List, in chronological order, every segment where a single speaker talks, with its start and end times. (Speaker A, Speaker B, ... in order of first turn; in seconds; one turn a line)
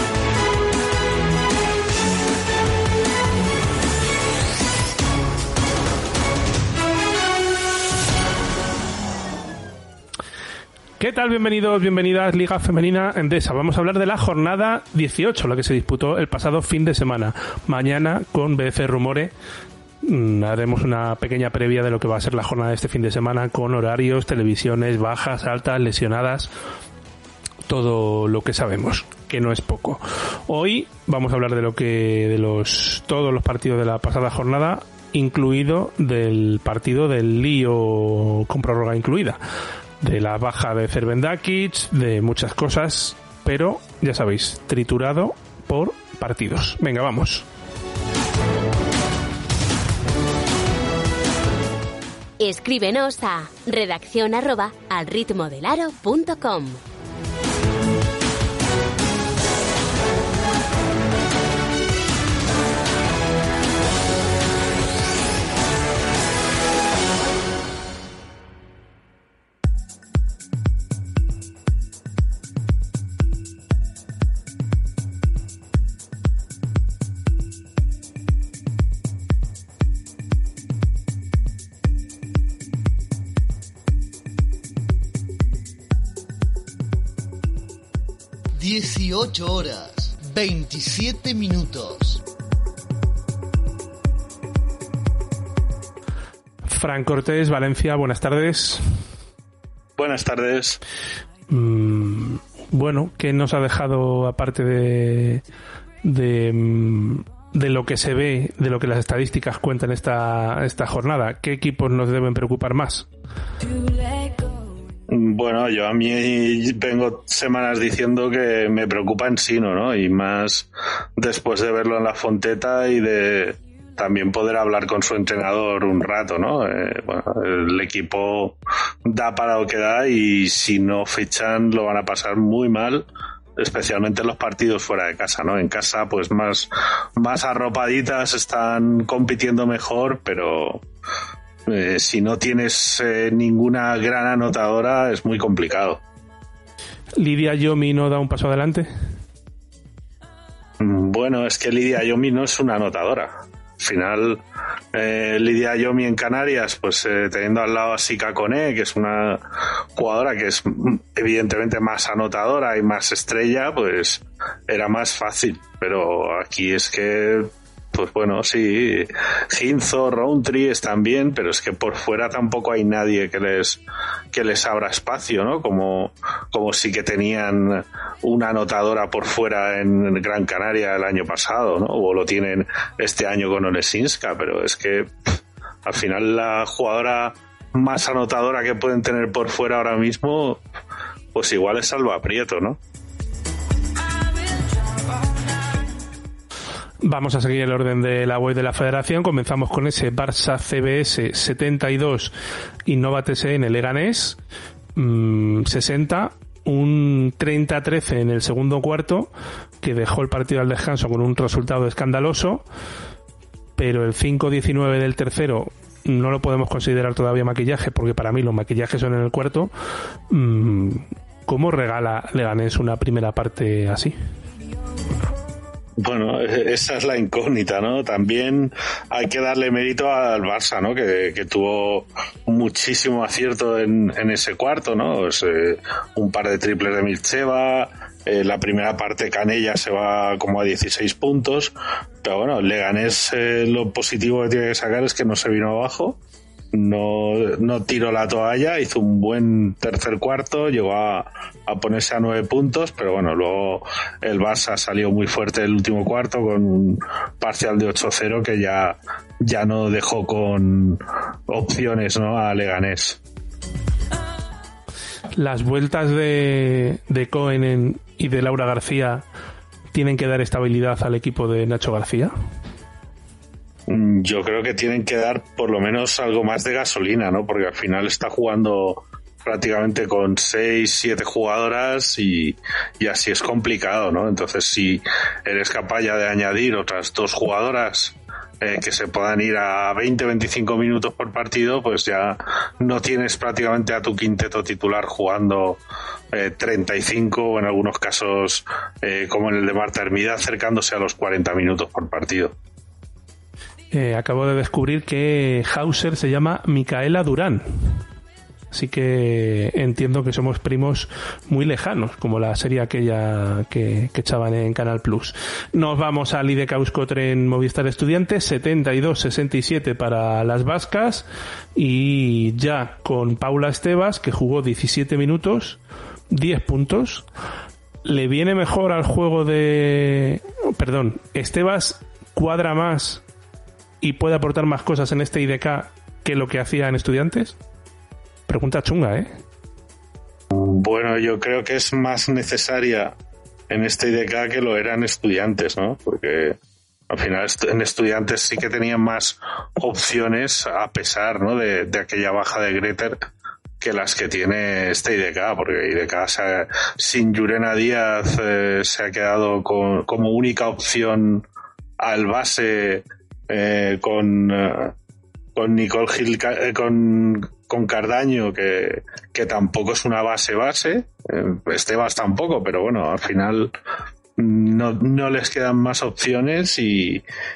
Speaker A: 11.0-19.3
Speaker A: 20.0-26.5
Speaker A: 27.7-39.4
Speaker A: 40.0-47.5
Speaker B: 52.4-56.8
Speaker C: 88.6-92.2
Speaker A: 96.6-98.8
Speaker D: 100.0-100.8
Speaker A: 101.5-105.4
Speaker A: 106.0-113.1
Speaker D: 115.1-140.8
Speaker D: 141.7-146.0
Speaker A: 147.2-148.9
Speaker D: 150.8-154.4
Speaker D: 154.9-173.8
Speaker D: 174.3-185.1
Speaker D: 185.8-190.6
Speaker D: 191.3-192.8
Speaker A: 197.0-202.3
Speaker A: 202.8-204.4
Speaker A: 204.9-212.6
Speaker A: 213.8-219.7
Speaker A: 220.3-224.1
Speaker D: 226.0-246.2
Speaker D: 246.7-263.2
Speaker A: 265.3-269.2
Speaker A: 269.9-272.3
Speaker D: 273.9-295.8
Speaker D: 296.3-302.5
Speaker A: 303.9-308.0
Speaker A: 308.7-327.2
Speaker A: 328.0-333.2
Speaker A: 334.0-337.6
Speaker A: 338.5-339.3
Speaker D: 340.5-343.1
Speaker D: 343.7-346.6
Speaker D: 347.1-353.2
Speaker D: 353.8-361.4
Speaker D: 362.0-364.9
Speaker D: 365.6-373.7
Speaker D: 374.4-377.2